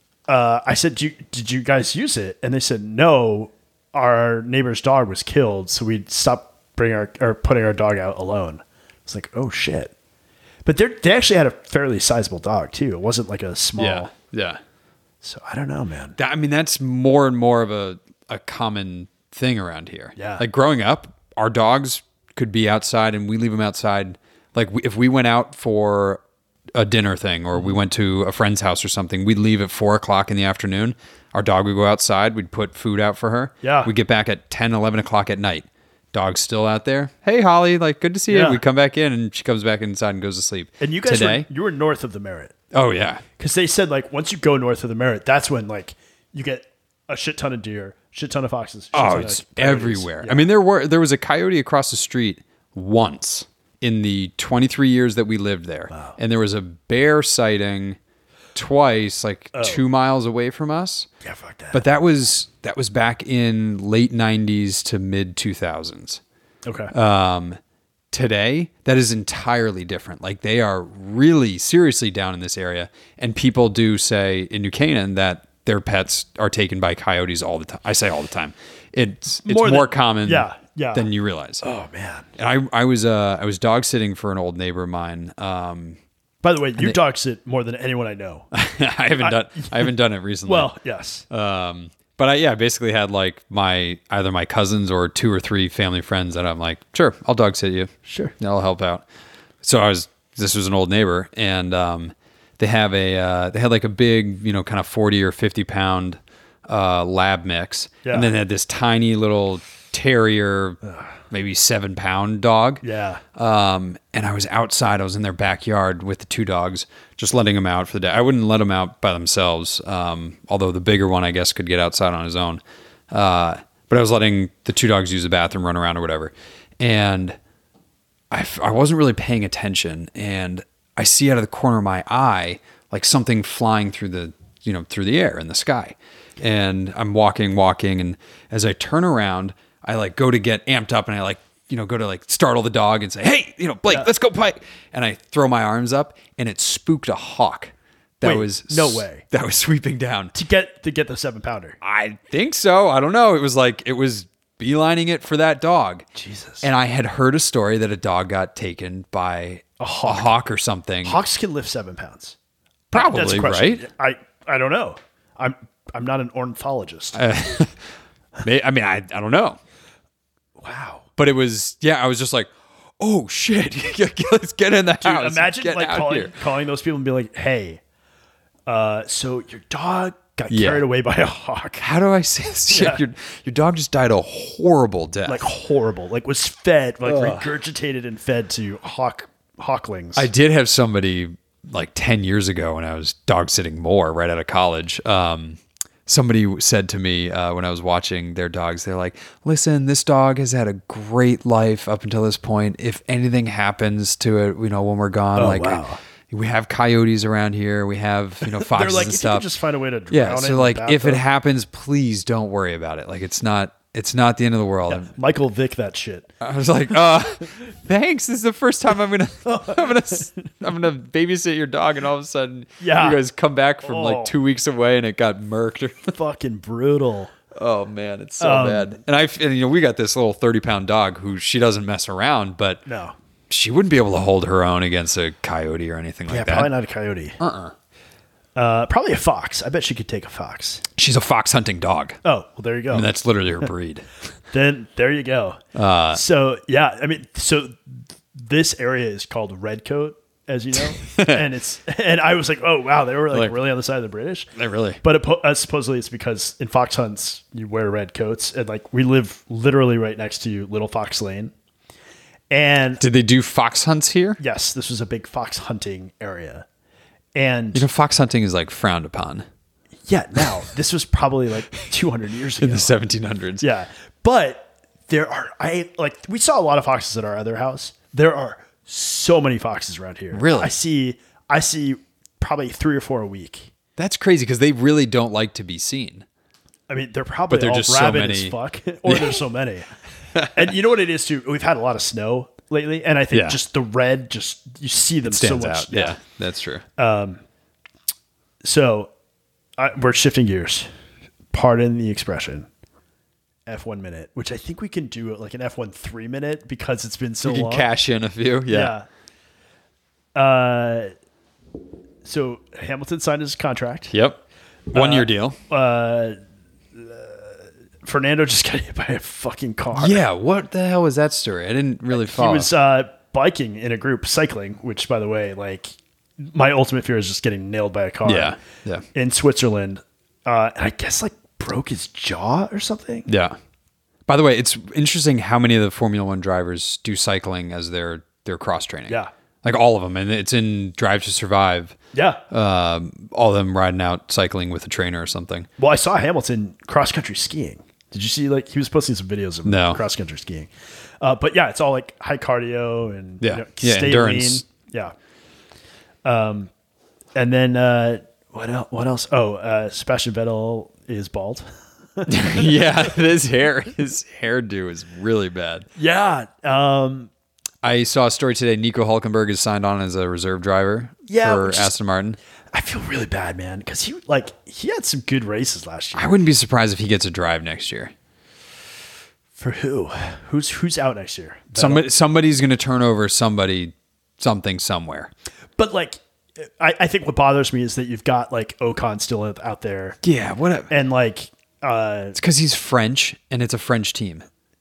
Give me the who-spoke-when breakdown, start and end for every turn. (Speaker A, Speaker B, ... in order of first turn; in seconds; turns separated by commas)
Speaker A: 0.3-9.9, Speaker A: 10.7-14.1, Speaker B: 13.8-14.6, Speaker A: 15.2-16.2, Speaker B: 16.2-26.2, Speaker A: 20.2-20.4, Speaker B: 26.8-41.5, Speaker A: 33.6-33.9, Speaker A: 38.3-38.6, Speaker A: 40.8-42.5, Speaker B: 42.7-43.2, Speaker A: 43.4-50.5, Speaker B: 48.9-58.0, Speaker A: 55.9-56.2, Speaker B: 58.5-61.1, Speaker A: 59.5-59.8, Speaker A: 61.2-61.8, Speaker B: 61.7-66.2, Speaker A: 66.7-66.9, Speaker B: 66.9-67.6, Speaker B: 68.1-81.6, Speaker A: 79.5-81.1, Speaker A: 81.6-82.3, Speaker B: 82.4-86.0, Speaker A: 86.4-88.5, Speaker B: 88.5-90.7, Speaker A: 89.2-89.9, Speaker A: 90.5-91.3, Speaker B: 91.3-99.0, Speaker A: 98.1-98.3, Speaker B: 99.6-110.8, Speaker A: 108.0-108.3, Speaker A: 110.8-111.2, Speaker B: 111.3-112.8, Speaker A: 112.8-113.2, Speaker B: 113.3-127.4, Speaker B: 128.3-150.3, Speaker A: 148.2-149.2, Speaker A: 150.3-151.8, Speaker B: 151.8-156.1, Speaker A: 156.2-156.7, Speaker B: 156.6-161.2, Speaker A: 159.8-160.3, Speaker A: 161.0-162.4, Speaker A: 162.9-167.2, Speaker B: 162.9-163.8, Speaker B: 167.1-167.8, Speaker B: 168.4-169.6, Speaker A: 170.6-171.1, Speaker B: 171.2-176.4, Speaker A: 175.0-177.8, Speaker A: 178.7-181.8, Speaker B: 180.5-180.8, Speaker B: 181.8-185.4, Speaker A: 182.7-183.0, Speaker A: 185.3-190.3, Speaker B: 187.1-187.5, Speaker B: 190.2-209.5, Speaker A: 205.4-206.0, Speaker A: 208.4-211.2, Speaker B: 210.1-215.1, Speaker A: 214.9-216.3, Speaker B: 216.4-226.1, Speaker A: 219.4-220.4, Speaker A: 222.8-223.2, Speaker A: 223.8-224.3, Speaker A: 226.1-227.3, Speaker B: 227.5-232.8, Speaker A: 228.4-229.0, Speaker A: 232.9-233.2, Speaker B: 233.5-236.7, Speaker A: 236.3-237.4, Speaker B: 237.4-237.8, Speaker A: 238.6-240.8, Speaker B: 241.0-242.2, Speaker A: 242.2-243.1, Speaker B: 242.9-244.1, Speaker A: 244.5-245.6, Speaker B: 245.8-246.2, Speaker A: 246.1-254.5, Speaker B: 251.0-251.4, Speaker B: 254.6-255.0, Speaker A: 255.0-261.5, Speaker A: 262.5-263.0, Speaker B: 263.0-264.4, Speaker A: 264.4-266.7, Speaker A: 267.4-267.9, Speaker B: 267.7-269.5, Speaker A: 270.1-272.9, Speaker B: 272.6-273.6, Speaker A: 273.6-283.7, Speaker B: 280.3-280.7, Speaker B: 284.0-286.3, Speaker A: 286.9-289.9, Speaker B: 287.5-288.6, Speaker B: 289.1-289.4, Speaker B: 290.3-290.7, Speaker A: 290.4-296.2, Speaker B: 293.3-293.6, Speaker B: 295.2-296.8, Speaker A: 297.0-297.4, Speaker A: 298.6-299.1, Speaker A: 299.8-300.9, Speaker A: 301.5-302.7, Speaker A: 303.7-307.9, Speaker B: 307.4-308.9, Speaker A: 308.7-309.1, Speaker A: 310.4-311.1, Speaker A: 312.2-314.1, Speaker B: 314.1-314.4, Speaker A: 314.9-316.4, Speaker B: 314.9-315.6, Speaker A: 316.9-320.2, Speaker B: 319.9-322.7, Speaker A: 322.1-328.6, Speaker B: 328.2-329.1, Speaker A: 329.1-333.3, Speaker B: 333.3-333.6, Speaker B: 334.3-342.0, Speaker A: 342.1-342.4, Speaker B: 342.5-345.7, Speaker A: 345.8-350.7, Speaker B: 349.6-350.0, Speaker A: 351.2-355.1, Speaker B: 353.4-354.6, Speaker A: 356.2-356.7, Speaker A: 357.4-363.1, Speaker B: 362.3-365.9, Speaker A: 366.0-367.3, Speaker B: 367.8-372.4, Speaker A: 371.3-371.9, Speaker A: 372.7-376.4, Speaker B: 376.2-378.1, Speaker A: 379.6-382.1, Speaker B: 381.8-385.3, Speaker A: 385.8-390.2, Speaker B: 390.2-390.9, Speaker A: 390.9-392.4, Speaker B: 392.4-394.4